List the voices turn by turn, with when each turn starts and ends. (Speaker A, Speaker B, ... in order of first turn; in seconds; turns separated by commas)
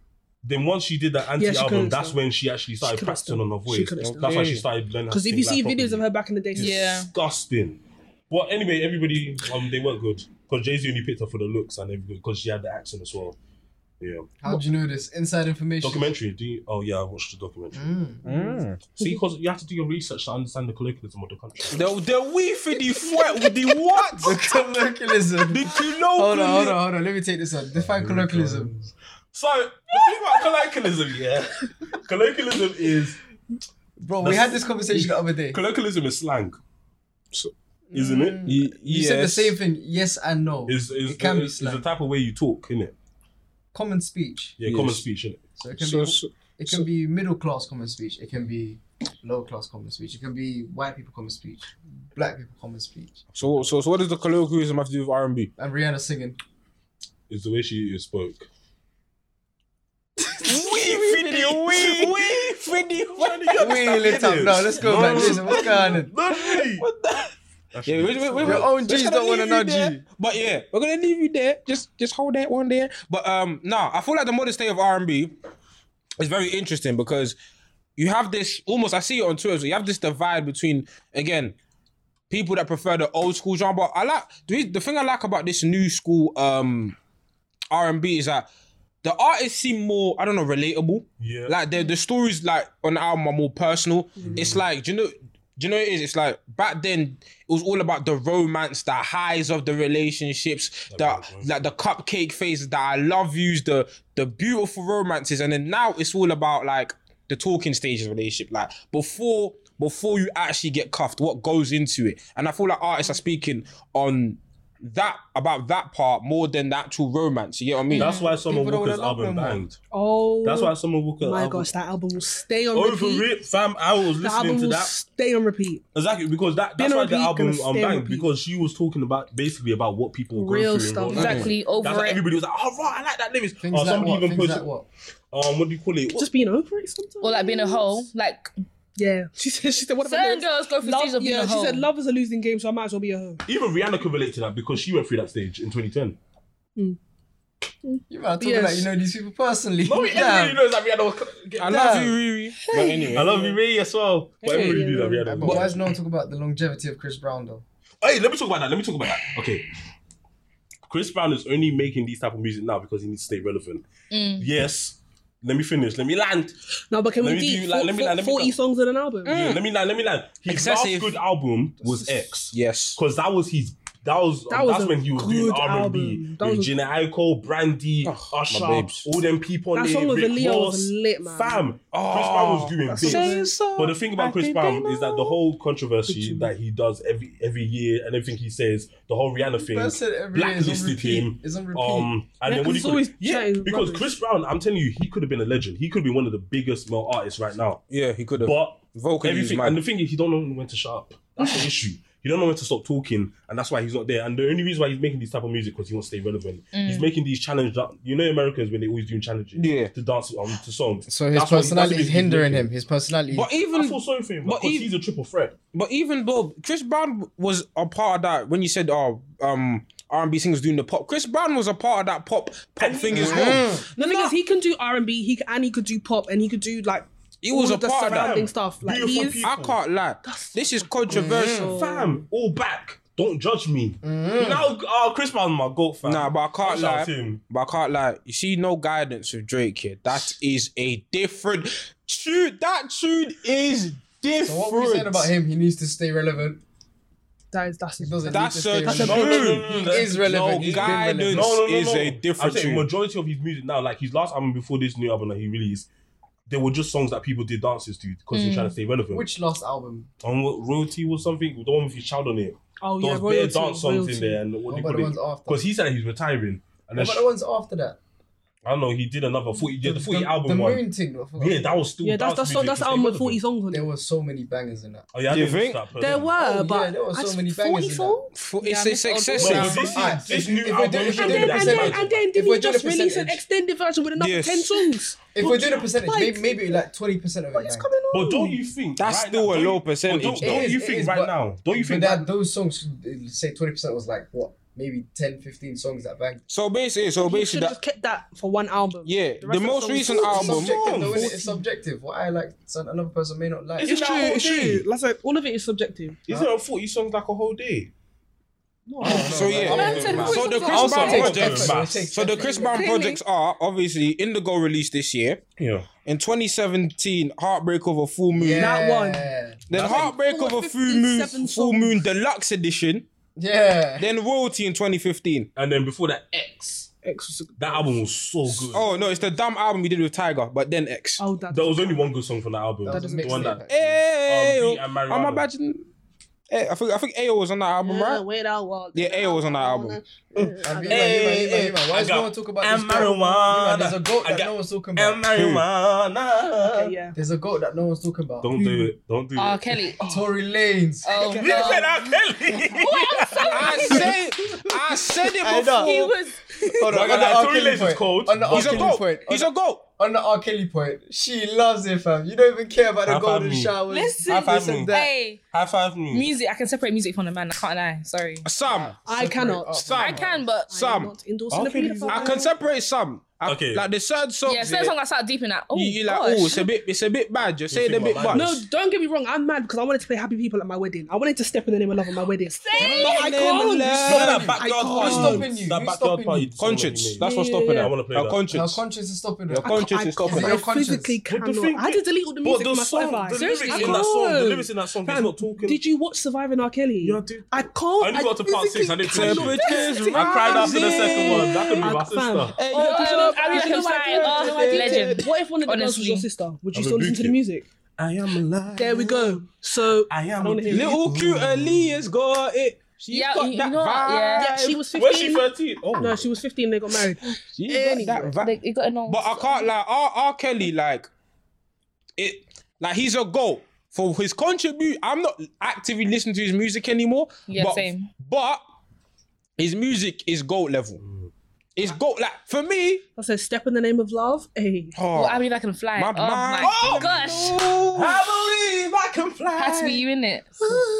Speaker A: 0.4-13.3, Speaker B: 1.4-2.2, Speaker B: 2.8-4.5, Speaker C: 4.0-4.6, Speaker B: 5.1-6.9, Speaker D: 6.5-7.1, Speaker A: 14.0-14.3, Speaker E: 14.4-16.1, Speaker A: 15.8-17.8, Speaker E: 17.7-18.6, Speaker C: 18.2-18.9, Speaker A: 18.9-21.9, Speaker C: 21.7-24.4, Speaker E: 24.2-28.7, Speaker C: 25.5-26.8, Speaker A: 27.7-33.2, Speaker E: 34.0-35.6, Speaker A: 34.2-36.6, Speaker E: 37.9-41.8, Speaker A: 37.9-38.6, Speaker C: 38.5-39.6, Speaker A: 40.7-42.9, Speaker E: 43.7-44.6, Speaker A: 44.6-45.4, Speaker C: 44.6-45.0, Speaker E: 45.5-53.2, Speaker C: 45.8-46.9, Speaker A: 53.3-53.7, Speaker C: 53.3-55.5, Speaker E: 55.6-56.4, Speaker A: 57.3-58.5, Speaker E: 60.2-62.1, Speaker C: 60.4-64.3, Speaker A: 61.7-62.3, Speaker A: 63.1-66.8, Speaker E: 63.6-66.1, Speaker C: 64.8-67.3, Speaker A: 67.7-68.7, Speaker C: 67.8-75.3, Speaker E: 68.4-70.0, Speaker C: 76.2-77.3, Speaker C: 78.0-81.5, Speaker C: 82.3-87.0, Speaker C: 87.7-88.5, Speaker C: 89.0-118.1, Speaker A: 91.2-91.5, Speaker A: 94.2-94.6, Speaker A: 100.9-101.7, Speaker D: 117.9-118.4, Speaker A: 117.9-119.8, Speaker E: 118.4-119.6, Speaker B: 119.9-123.3, Speaker A: 120.4-121.7, Speaker A: 122.7-124.9, Speaker B: 124.2-125.8, Speaker A: 125.9-134.7, Speaker B: 126.8-128.3, Speaker B: 130.3-131.6, Speaker D: 131.1-132.2, Speaker C: 131.2-131.5, Speaker E: 133.6-134.8, Speaker A: 135.3-136.3, Speaker B: 136.2-138.1, Speaker D: 137.2-138.5, Speaker B: 139.0-143.4, Speaker D: 140.0-141.8, Speaker A: 143.4-146.2, Speaker B: 147.8-148.9, Speaker E: 148.1-150.6, Speaker A: 149.8-152.1, Speaker C: 151.6-153.3, Speaker E: 151.7-152.1, Speaker B: 152.7-153.6, Speaker A: 153.1-155.9, Speaker B: 154.4-155.7, Speaker E: 155.2-157.6, Speaker A: 158.0-159.7, Speaker A: 160.9-163.8, Speaker D: 164.1-164.5, Speaker A: 164.4-166.5, Speaker B: 166.9-169.5, Speaker A: 167.2-168.6, Speaker C: 169.2-169.6, Speaker A: 169.3-197.8, Speaker C: 170.5-171.2, Speaker B: 171.8-172.2, Speaker C: 172.5-173.0, Speaker B: 174.5-176.7, Speaker C: 178.0-179.1, Speaker B: 179.7-181.7, Speaker C: 181.9-185.3, Speaker B: 182.8-183.6, Speaker B: 186.1-186.5, Speaker E: 189.6-192.1, Speaker B: 192.4-194.2, Speaker C: 197.9-199.8, Speaker A: 198.4-212.7, Speaker D: 206.7-207.1, Speaker C: 209.6-209.9, Speaker E: 211.1-213.5, Speaker C: 213.3-214.9, Speaker A: 213.7-215.6, Speaker C: 215.7-224.3, Speaker A: 222.8-223.6, Speaker E: 223.1-223.8, Speaker B: 223.2-229.5, Speaker C: 227.4-228.4, Speaker A: 228.1-229.8, Speaker C: 229.4-231.8, Speaker B: 230.2-232.2, Speaker E: 231.1-231.8, Speaker A: 231.7-237.4, Speaker E: 234.0-234.7, Speaker C: 236.0-245.3, Speaker E: 244.4-246.6, Speaker B: 247.5-249.9, Speaker E: 248.0-251.6, Speaker C: 248.3-252.9, Speaker A: 248.9-255.9, Speaker A: 256.5-259.3, Speaker D: 258.3-258.7, Speaker E: 259.1-260.1, Speaker A: 260.2-267.3, Speaker B: 262.8-264.4, Speaker E: 264.7-265.6, Speaker E: 266.9-268.0, Speaker A: 268.6-270.8, Speaker E: 269.8-271.8, Speaker A: 271.4-273.4, Speaker B: 272.0-273.9, Speaker E: 273.7-275.1, Speaker A: 275.1-276.3, Speaker C: 275.3-275.8, Speaker B: 275.9-278.4, Speaker E: 276.4-278.2, Speaker C: 278.4-279.9, Speaker D: 278.6-280.0, Speaker A: 279.3-282.2, Speaker E: 279.5-283.4, Speaker B: 280.9-286.8, Speaker C: 284.1-284.8, Speaker E: 285.3-287.9, Speaker B: 287.5-288.6, Speaker A: 288.1-292.3, Speaker C: 289.0-290.7, Speaker E: 290.4-296.4, Speaker C: 296.5-297.8, Speaker B: 297.2-301.6, Speaker C: 299.0-300.8, Speaker A: 300.2-301.3, Speaker E: 300.2-303.9, Speaker B: 303.8-306.2, Speaker C: 303.8-304.8, Speaker A: 303.9-304.7, Speaker A: 306.3-307.9, Speaker B: 308.9-311.4, Speaker E: 309.0-312.9, Speaker A: 309.0-312.1, Speaker C: 309.1-315.4, Speaker D: 309.7-311.3, Speaker B: 312.4-313.2, Speaker A: 315.6-315.9, Speaker C: 316.0-318.7, Speaker E: 318.3-319.7, Speaker B: 318.5-322.0, Speaker C: 319.7-323.1, Speaker A: 319.7-320.1, Speaker E: 323.4-324.1, Speaker C: 324.0-325.5, Speaker A: 325.6-326.9, Speaker B: 327.0-327.8, Speaker A: 327.6-328.9, Speaker C: 328.7-331.2, Speaker B: 331.2-332.1, Speaker A: 331.5-333.6, Speaker E: 332.8-334.0, Speaker B: 332.9-333.6, Speaker C: 333.7-335.9, Speaker A: 334.2-335.4, Speaker C: 336.5-338.2, Speaker B: 337.8-341.4, Speaker C: 338.9-340.0, Speaker A: 340.4-346.9, Speaker E: 340.6-345.2, Speaker C: 345.3-345.6, Speaker B: 346.6-347.2, Speaker E: 347.1-348.5, Speaker A: 348.4-349.9, Speaker B: 348.6-348.9, Speaker D: 349.4-350.1, Speaker B: 350.0-350.2, Speaker E: 350.0-351.1, Speaker D: 351.0-351.9, Speaker B: 351.1-351.9, Speaker A: 351.3-353.9, Speaker D: 352.7-354.1, Speaker B: 353.4-354.1, Speaker C: 353.5-356.1, Speaker E: 354.5-356.0, Speaker D: 355.7-356.9, Speaker E: 356.6-365.1, Speaker A: 356.9-359.0, Speaker C: 358.5-359.8, Speaker A: 363.1-365.0, Speaker D: 363.9-365.4, Speaker A: 365.5-366.3, Speaker D: 366.1-368.5, Speaker C: 368.4-368.9, Speaker E: 368.6-370.4, Speaker B: 369.0-369.8, Speaker C: 369.7-371.1, Speaker D: 369.9-370.7, Speaker B: 370.7-372.5, Speaker A: 371.5-372.4, Speaker C: 372.1-374.9, Speaker A: 373.4-373.8, Speaker D: 374.4-376.7, Speaker C: 375.7-378.5, Speaker A: 377.7-378.6, Speaker B: 378.3-385.5, Speaker D: 382.5-383.6, Speaker C: 382.8-385.4, Speaker A: 384.0-388.4, Speaker E: 384.1-386.5, Speaker C: 386.6-388.8, Speaker B: 387.2-387.9, Speaker E: 388.5-391.2, Speaker C: 389.5-390.6, Speaker B: 389.6-407.7, Speaker A: 391.3-395.8, Speaker D: 393.4-394.0, Speaker A: 397.0-402.6, Speaker C: 399.1-401.9, Speaker C: 402.6-405.2, Speaker D: 402.7-406.3, Speaker A: 406.7-407.4, Speaker A: 408.0-409.4, Speaker B: 408.8-411.0, Speaker A: 410.1-412.0, Speaker C: 410.7-414.8, Speaker D: 413.1-414.6, Speaker B: 414.4-418.4, Speaker A: 414.9-416.3, Speaker C: 417.5-421.1, Speaker D: 418.4-419.7, Speaker C: 422.2-428.6, Speaker D: 427.5-428.1, Speaker C: 429.6-431.0, Speaker A: 431.0-431.3, Speaker C: 431.8-433.0, Speaker B: 433.1-434.9, Speaker C: 434.9-435.4, Speaker D: 435.1-437.8, Speaker C: 435.9-438.2, Speaker A: 436.6-437.1, Speaker A: 437.9-440.0, Speaker D: 439.6-440.8